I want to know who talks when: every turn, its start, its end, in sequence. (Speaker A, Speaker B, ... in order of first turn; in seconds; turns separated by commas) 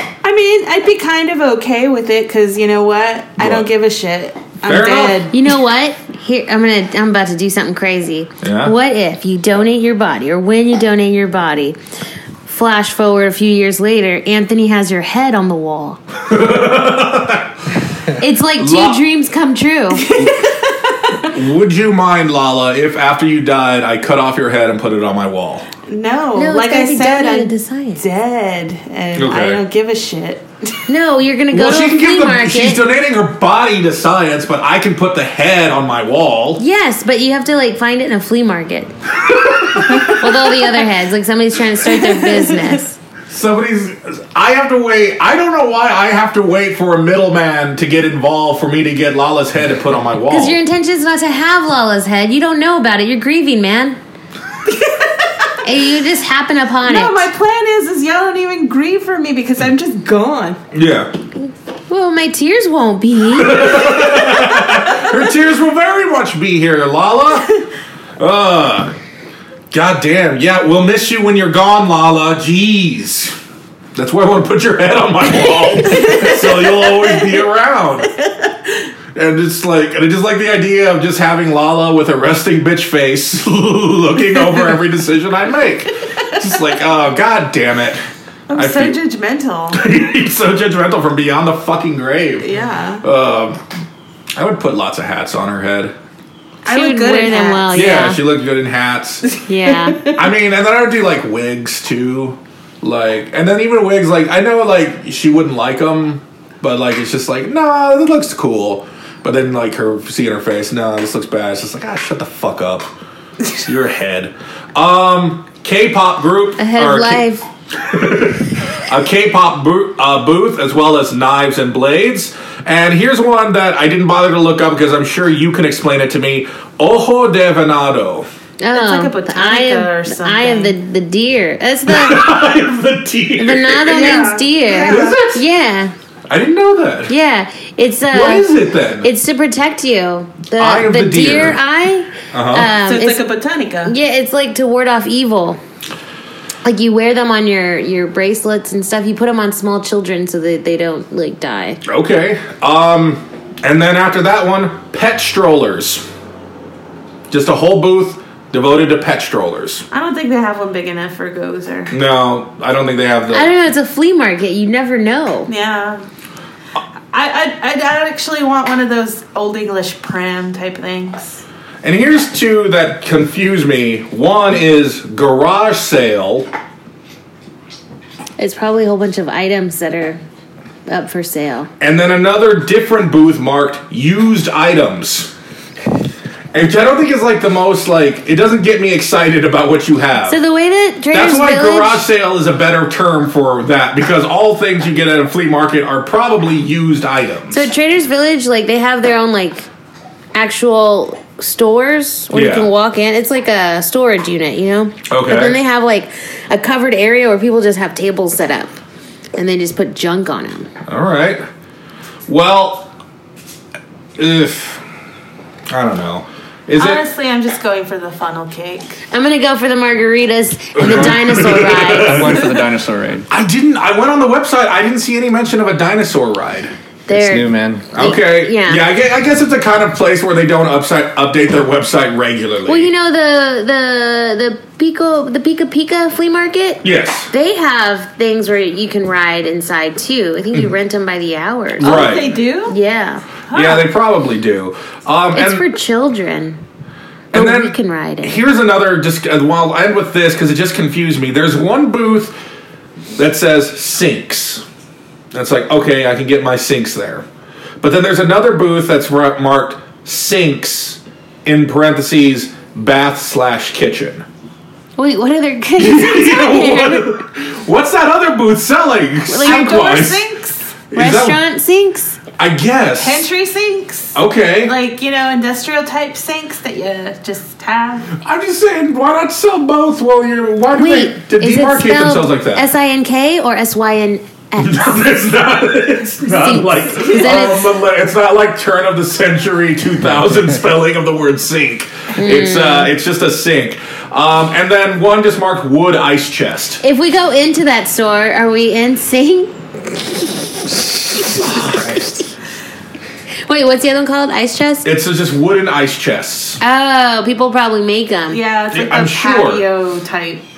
Speaker A: 0.2-5.3, Speaker B: 3.4-3.7, Speaker B: 4.7-5.2, Speaker C: 5.3-11.8, Speaker B: 8.4-8.7, Speaker C: 12.4-16.0, Speaker B: 16.2-17.7, Speaker C: 18.1-20.1, Speaker B: 18.6-19.0, Speaker A: 19.9-21.3, Speaker B: 21.3-25.6, Speaker A: 25.8-30.4, Speaker C: 26.4-28.0, Speaker B: 29.1-29.6, Speaker C: 30.9-32.8, Speaker B: 31.5-36.6, Speaker C: 36.6-38.9, Speaker B: 39.2-40.2, Speaker C: 40.0-43.0, Speaker A: 41.9-42.8, Speaker B: 43.3-50.6, Speaker C: 50.3-54.0, Speaker A: 54.7-55.2, Speaker C: 55.6-57.2, Speaker A: 56.8-60.6, Speaker B: 60.7-61.1, Speaker C: 61.9-63.9, Speaker B: 63.3-67.5, Speaker B: 68.2-68.9, Speaker B: 69.7-73.3, Speaker B: 73.9-78.1, Speaker A: 75.8-77.4, Speaker B: 79.1-88.0, Speaker A: 88.5-89.8, Speaker B: 88.5-89.0, Speaker B: 89.7-92.5, Speaker A: 92.4-93.0, Speaker B: 93.0-93.6, Speaker B: 94.3-95.9, Speaker A: 96.6-97.7, Speaker C: 96.7-98.2, Speaker B: 97.7-99.3, Speaker A: 99.3-100.2, Speaker C: 99.5-100.0, Speaker B: 100.1-112.9, Speaker B: 113.5-128.3, Speaker C: 116.6-117.5, Speaker C: 128.6-132.3, Speaker A: 128.7-130.7, Speaker B: 131.9-135.4, Speaker C: 133.4-135.9, Speaker A: 133.8-135.2, Speaker B: 136.3-137.1, Speaker C: 137.1-138.4, Speaker B: 138.1-139.1, Speaker C: 139.0-143.2, Speaker B: 140.6-141.6, Speaker B: 142.3-142.7, Speaker A: 142.8-143.9, Speaker C: 143.8-145.6, Speaker C: 146.6-151.8, Speaker B: 151.8-156.1, Speaker B: 157.3-159.8, Speaker A: 159.9-161.9, Speaker B: 161.9-163.5, Speaker C: 163.3-165.5, Speaker A: 165.5-166.0, Speaker A: 167.1-171.4, Speaker B: 171.8-176.5, Speaker C: 178.4-180.2, Speaker C: 180.9-181.7, Speaker B: 181.8-185.3, Speaker B: 186.5-190.4, Speaker C: 190.3-192.0, Speaker B: 191.1-197.7, Speaker C: 197.5-199.7, Speaker C: 200.3-208.8, Speaker B: 202.3-202.7, Speaker B: 205.1-205.6, Speaker C: 209.3-210.7, Speaker B: 210.9-211.4, Speaker B: 212.3-212.9, Speaker B: 214.2-214.8, Speaker B: 215.7-217.0, Speaker A: 216.8-219.0, Speaker C: 219.1-222.3, Speaker B: 220.7-222.6, Speaker D: 221.8-223.3, Speaker B: 223.3-226.7, Speaker C: 227.1-228.8, Speaker D: 227.1-227.9, Speaker B: 227.9-232.9, Speaker C: 232.7-242.1, Speaker B: 236.8-237.3, Speaker B: 241.8-242.4, Speaker A: 241.8-242.8, Speaker C: 242.7-243.2, Speaker A: 243.5-243.9, Speaker B: 243.5-245.7, Speaker C: 245.3-246.6, Speaker C: 247.3-248.4, Speaker B: 247.3-252.3, Speaker B: 253.2-254.6, Speaker B: 255.3-257.2, Speaker B: 257.8-264.2, Speaker C: 265.0-267.1, Speaker B: 265.8-270.2, Speaker C: 269.3-270.0, Speaker A: 269.4-270.7, Speaker B: 270.9-271.4, Speaker C: 270.9-272.2, Speaker B: 272.4-273.3, Speaker A: 273.0-278.2, Speaker B: 274.1-274.7, Speaker B: 278.1-282.6, Speaker C: 280.8-285.0, Speaker B: 284.6-296.8, Speaker C: 286.3-287.7, Speaker A: 287.1-287.5, Speaker C: 292.2-292.9, Speaker C: 296.8-302.1, Speaker B: 301.3-302.1, Speaker C: 303.4-304.9, Speaker B: 304.8-306.6, Speaker C: 306.6-308.4, Speaker A: 308.3-310.4, Speaker B: 308.7-309.6